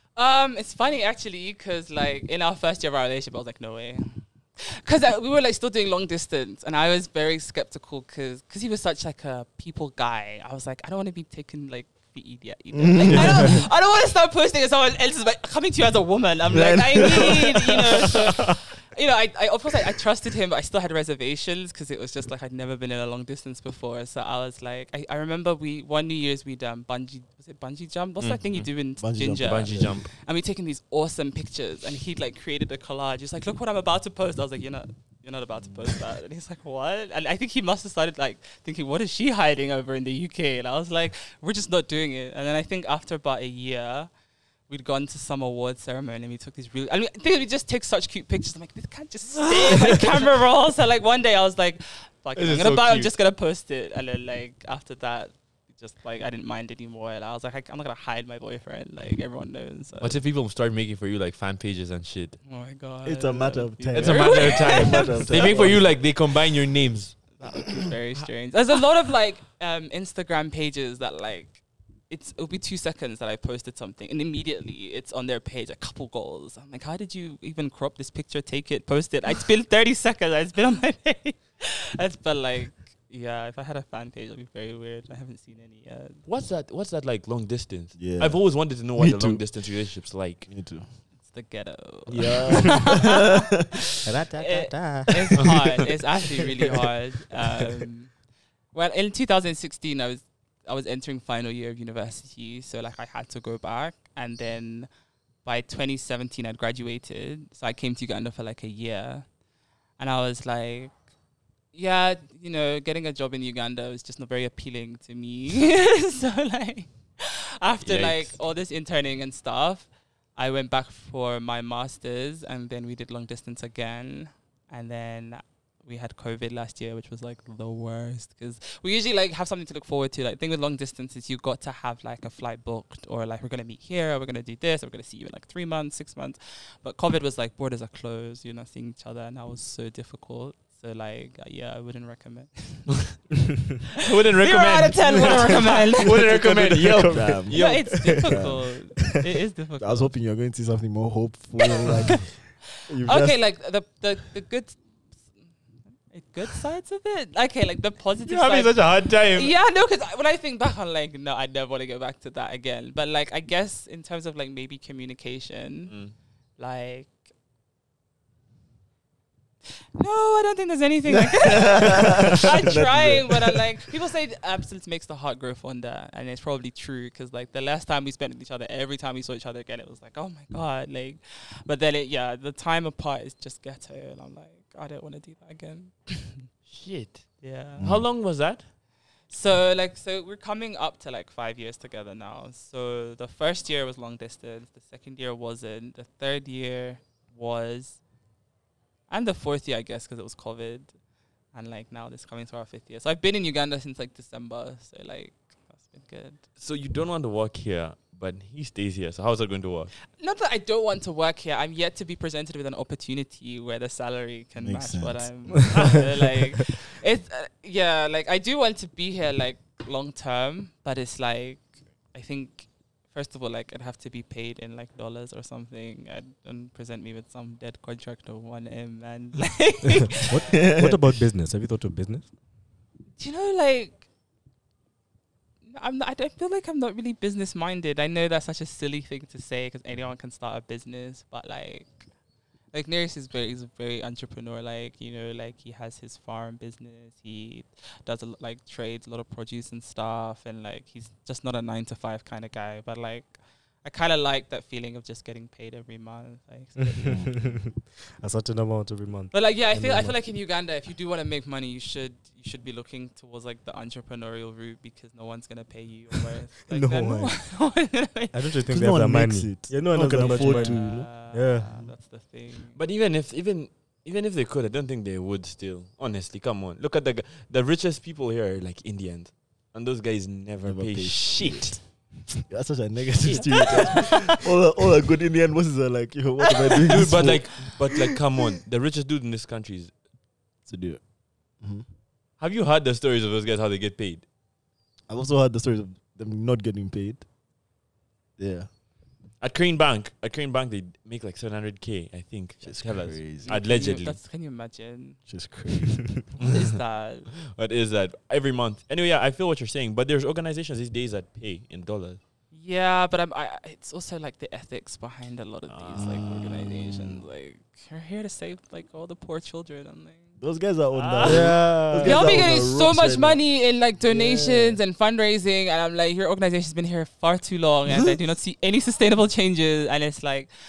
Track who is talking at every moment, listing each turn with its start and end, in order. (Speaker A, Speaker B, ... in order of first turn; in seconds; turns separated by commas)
Speaker A: 0.1-44.1, Speaker B: 12.7-13.7, Speaker B: 16.5-18.5, Speaker C: 28.2-28.7, Speaker B: 29.0-29.9, Speaker C: 29.4-30.1, Speaker A: 44.7-60.2, Speaker C: 52.4-53.1, Speaker C: 60.0-62.4, Speaker A: 62.4-65.7, Speaker B: 63.0-65.8, Speaker C: 63.9-67.1, Speaker A: 67.4-86.2, Speaker C: 86.2-90.5, Speaker B: 88.0-89.4, Speaker B: 90.5-90.9, Speaker A: 91.2-93.3, Speaker B: 92.1-93.5, Speaker D: 94.0-95.6, Speaker A: 94.3-98.1, Speaker A: 98.7-104.9, Speaker A: 105.4-109.2, Speaker A: 110.0-110.9, Speaker A: 111.7-143.0, Speaker C: 117.8-118.3, Speaker C: 144.0-147.8, Speaker A: 144.3-146.3, Speaker D: 146.1-148.4, Speaker B: 147.0-148.7, Speaker A: 147.5-150.1, Speaker B: 149.8-153.4, Speaker A: 153.0-154.8, Speaker A: 156.1-165.9, Speaker C: 158.2-159.5, Speaker A: 166.6-167.1, Speaker A: 170.0-186.5, Speaker B: 171.1-173.7, Speaker C: 186.7-188.7, Speaker A: 187.4-187.8, Speaker B: 187.8-188.1, Speaker A: 189.3-198.0, Speaker A: 199.1-200.9, Speaker A: 201.5-206.4, Speaker C: 206.6-209.9, Speaker A: 210.2-230.4, Speaker B: 214.6-215.9, Speaker D: 230.1-232.3, Speaker B: 230.4-231.1, Speaker A: 233.2-234.1, Speaker A: 235.7-242.1, Speaker A: 242.7-257.3, Speaker D: 256.8-260.2, Speaker B: 257.0-257.5, Speaker A: 259.3-268.6, Speaker D: 266.7-267.4, Speaker D: 268.3-271.8, Speaker B: 268.7-271.1, Speaker A: 270.1-272.8, Speaker C: 272.7-281.8, Speaker B: 280.6-287.7, Speaker C: 283.2-284.3, Speaker C: 286.8-289.9, Speaker B: 290.6-291.0, Speaker B: 291.6-291.8, Speaker C: 292.4-294.2, Speaker B: 295.1-297.2, Speaker B: 298.4-298.7, Speaker C: 299.4-304.2, Speaker B: 302.6-303.5, Speaker A: 303.4-305.2, Speaker B: 305.3-306.4, Speaker C: 306.4-306.6, Speaker A: 306.4-307.3, Speaker C: 307.4-312.2, Speaker A: 312.5-320.4, Speaker C: 315.7-316.2, Speaker B: 315.9-317.2, Speaker B: 320.4-323.4, Speaker A: 320.9-330.5, Speaker D: 321.2-322.3, Speaker B: 324.0-324.8